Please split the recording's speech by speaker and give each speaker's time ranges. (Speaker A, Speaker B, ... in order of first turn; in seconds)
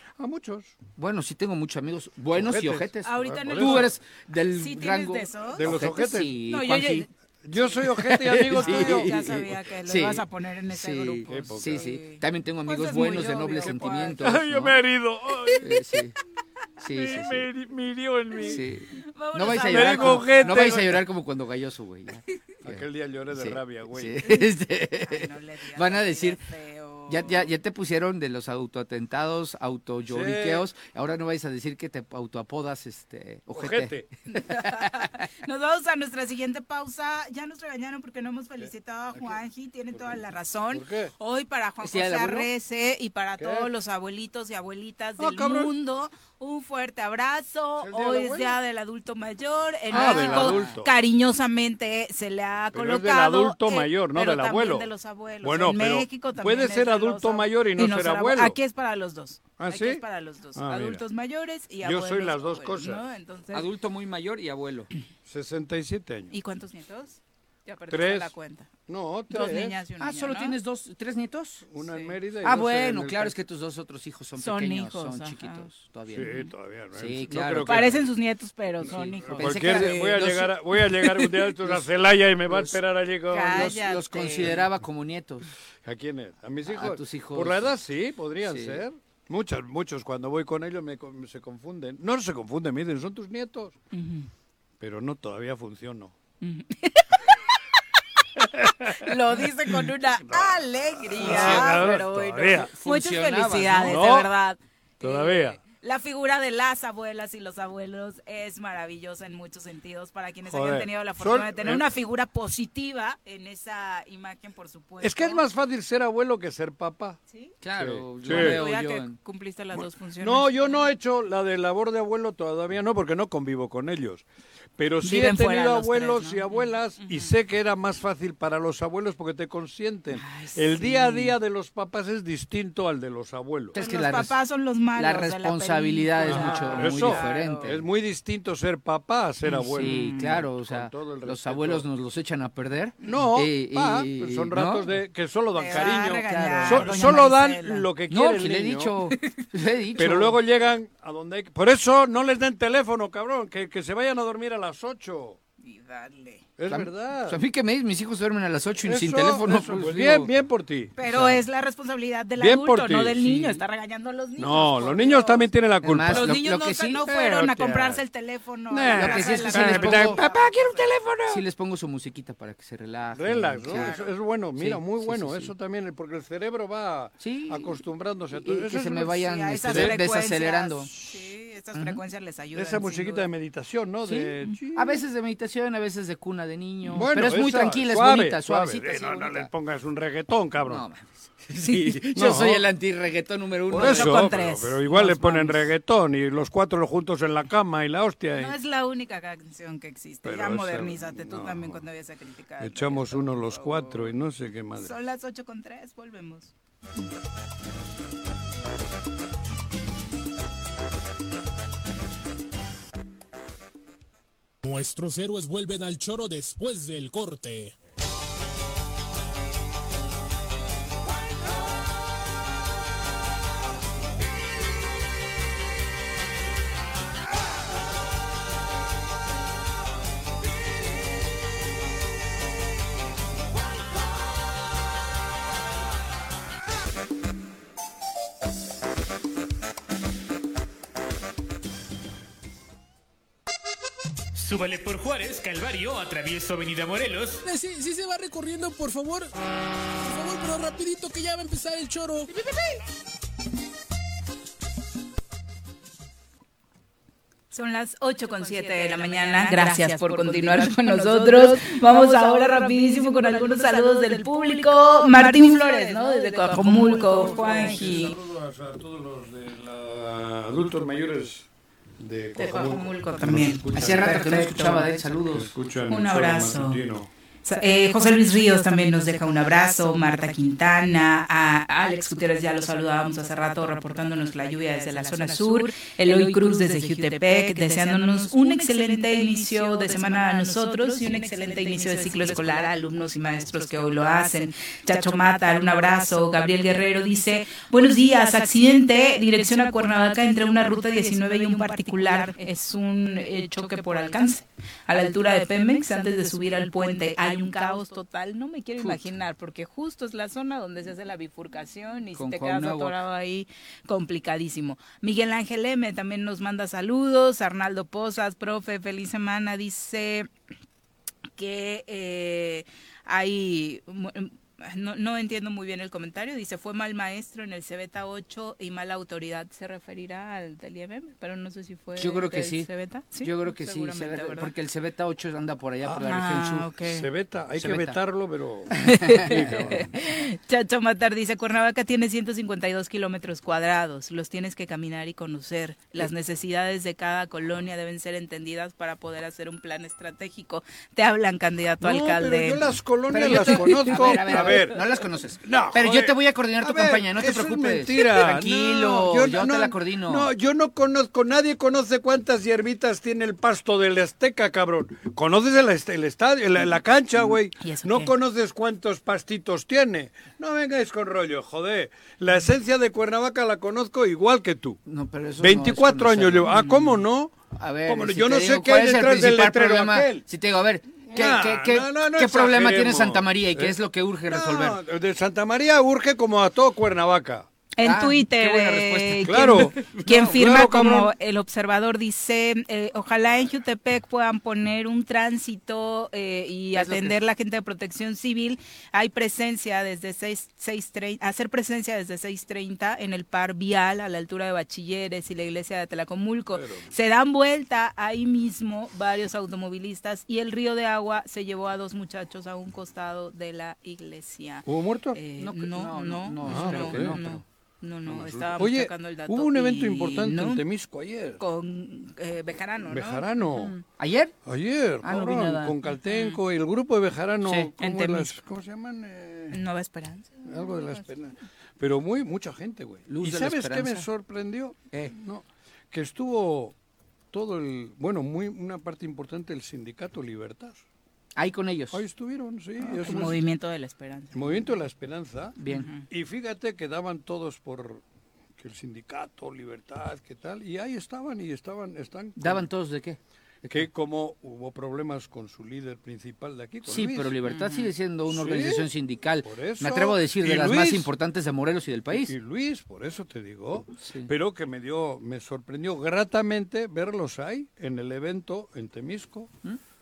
Speaker A: 0.2-0.8, 2.3-3.9, 5.5-6.4, 7.5-9.6, 11.3-12.0, 12.9-15.8, 16.8-18.6, 19.5-21.0, 22.6-24.2, 30.1-30.7, 33.5-34.1, 38.6-39.4, 39.9-41.1, 43.4-43.7, 45.2-45.7, 47.8-48.6, 49.9-50.9, 52.7-54.9, 55.4-58.6, 59.6-60.0, 60.5-61.0, 61.8-63.0, 65.3-66.3, 67.9-68.3, 68.9-69.8, 71.7-73.4, 76.1-78.1, 78.8-84.7, 85.8-93.8, 94.8-96.1, 98.4-102.7, 103.8-104.3, 105.0-105.6, 110.5-111.9, 115.0-117.2, 117.8-118.6, 119.7-124.2, 124.8-133.8, 136.2-141.9, 143.0-149.1, 150.0-155.4, 156.6-157.4, 158.8-161.4, 162.4-163.6, 164.4-166.4, 167.0-168.0, 168.7-171.4, 173.2-180.0, 182.5-185.0, 186.9-190.8, 192.1-192.7, 193.7-198.6, 200.2-201.9, 202.6-204.9, 266.4-271.5, 272.0-274.3, 275.3-277.1, 335.8-336.2, 336.8-339.9, 351.8-354.8, 355.4-374.8, 375.4-380.2, 381.1-383.8, 384.3-387.5, 389.2-391.1, 406.5-406.9, 414.7-415.2, 416.4-417.2, 418.1-421.4, 422.8-423.8, 424.5-429.6, 430.4-436.8, 437.3-440.8, 441.9-443.4, 444.3-445.6, 446.1-448.0, 448.6-452.7, 453.6-457.4, 458.3-458.9, 459.4-461.1, 462.1-469.5
Speaker B: 1.0-7.1, 8.0-14.8, 15.6-16.2, 16.8-17.5, 18.4-26.4, 27.1-34.9, 41.8-42.5, 49.9-50.7, 63.5-64.9, 70.0-71.7, 72.4-76.3, 76.9-78.0, 78.8-81.8, 82.5-82.8, 83.5-85.5, 86.7-87.7, 88.4-88.8, 101.2-104.0, 117.6-119.2, 133.8-134.4, 134.9-137.8, 139.7-144.9, 145.7-147.2, 148.1-150.4, 156.7-160.3, 165.8-167.1, 168.9-170.3, 171.3-174.0, 174.6-175.5, 177.2-177.8, 178.4-180.9, 181.8-182.0, 184.8-189.5, 190.7-194.4, 273.7-275.5, 312.1-313.0, 332.0-336.7, 337.6-338.0, 338.8-339.2, 353.1-360.3, 374.9-376.6, 377.5-384.8, 387.8-390.5, 396.8-397.2, 415.4-417.4, 424.0-424.3, 425.0-425.8, 427.4-427.7, 433.1-434.1, 441.4-442.0, 445.6-445.9, 452.4-453.2, 456.9-462.3, 464.0-464.3
Speaker C: 3.0-4.0, 4.5-5.7, 6.5-7.7, 8.3-14.4, 18.4-20.8, 25.0-27.5, 34.3-63.7, 66.3-68.7, 69.3-70.6, 71.8-72.1, 74.4-75.7, 76.2-76.5, 77.7-80.3, 83.3-84.6, 93.9-94.3, 96.4-97.5, 98.8-115.4, 118.2-120.9, 125.0-127.3, 130.2-131.4, 133.7-137.8, 139.4-140.4, 145.6-147.9, 155.6-156.5, 161.0-165.5, 166.1-170.9, 173.7-174.1, 179.2-183.3, 184.1-184.5, 193.7-195.7, 198.3-204.1, 204.8-206.5, 257.5-268.2, 272.4-274.9, 275.9-276.8, 277.4-320.3, 321.4-334.5, 336.0-337.1, 338.8-352.6, 353.2-354.5, 367.6-368.1, 376.5-376.9, 387.8-420.6, 421.4-423.8, 426.1-426.4, 427.8-428.3, 429.5-431.0, 442.8-444.6, 445.7-446.1, 457.4-457.9
Speaker D: 214.6-217.8, 247.4-249.3, 250.0-252.3
Speaker E: 244.3-247.4